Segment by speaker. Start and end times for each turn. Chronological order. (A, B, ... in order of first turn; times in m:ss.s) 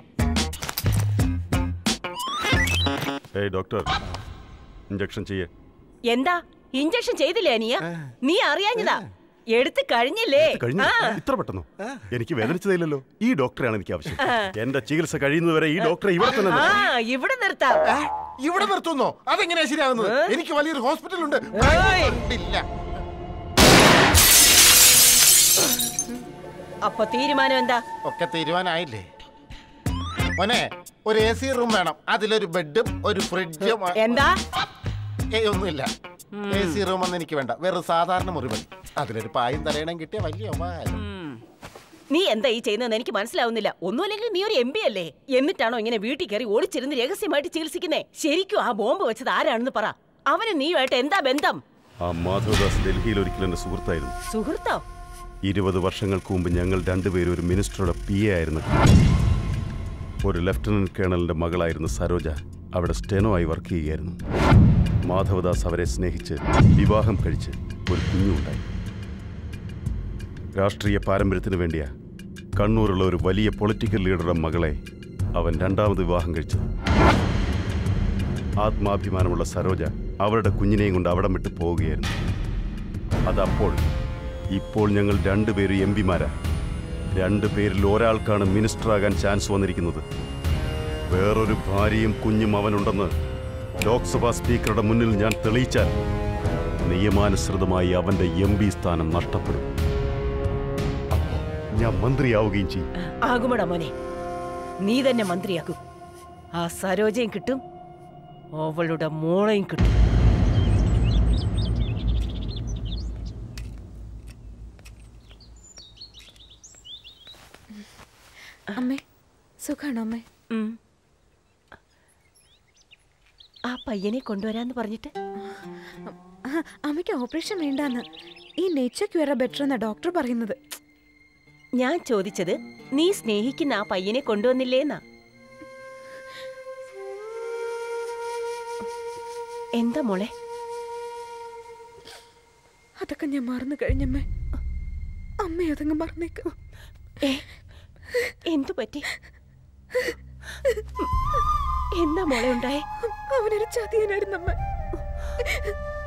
0:03.4-0:03.9 A
0:04.9-0:05.5 A
0:06.1-0:09.0 B
0:09.6-0:11.2 B
0:10.4-0:16.8 A
0:15.8-0:17.8 B
0:17.9-0:22.6 C
0:20.0-0:20.3 B
0:21.6-0:22.2 B
0:26.8-0:27.8 B
0:28.0-0:29.0 C
0:30.4-0:34.2 C
0:34.0-0:34.4 B
0:35.3-0:35.9 C
0:36.5-0:41.0 C
0:42.1-0:51.6 B
0:52.0-0:54.1 A
0:54.3-0:54.8 B
0:55.5-0:58.6 A
1:00.2-1:04.2 A
1:05.1-1:08.6 A
1:10.6-1:11.9 A
1:12.6-1:14.8 A
1:15.4-1:16.6 A
1:18.6-1:22.1 A
1:23.3-1:23.8 A
1:24.5-1:26.3 A
1:27.1-1:30.0 A
1:31.1-1:33.1 A
1:33.8-1:35.9 A
1:36.9-1:39.7 A
1:41.1-1:42.8 A
1:43.3-1:43.9 B
1:44.8-1:45.8 B
1:46.6-1:47.6 B
1:48.6-1:49.9 B
1:58.8-1:59.0 D
1:59.6-2:00.2 D
2:00.5-2:00.8 B
2:03.7-2:05.1 B
2:06.1-2:08.0 D
2:08.6-2:10.6 D
2:11.8-2:15.0 B
2:19.8-2:20.3 B
2:23.0-2:24.2 D
2:25.4-2:26.4 D
2:28.5-2:29.1 B
2:32.0-2:32.8 B
2:33.1-2:34.6 D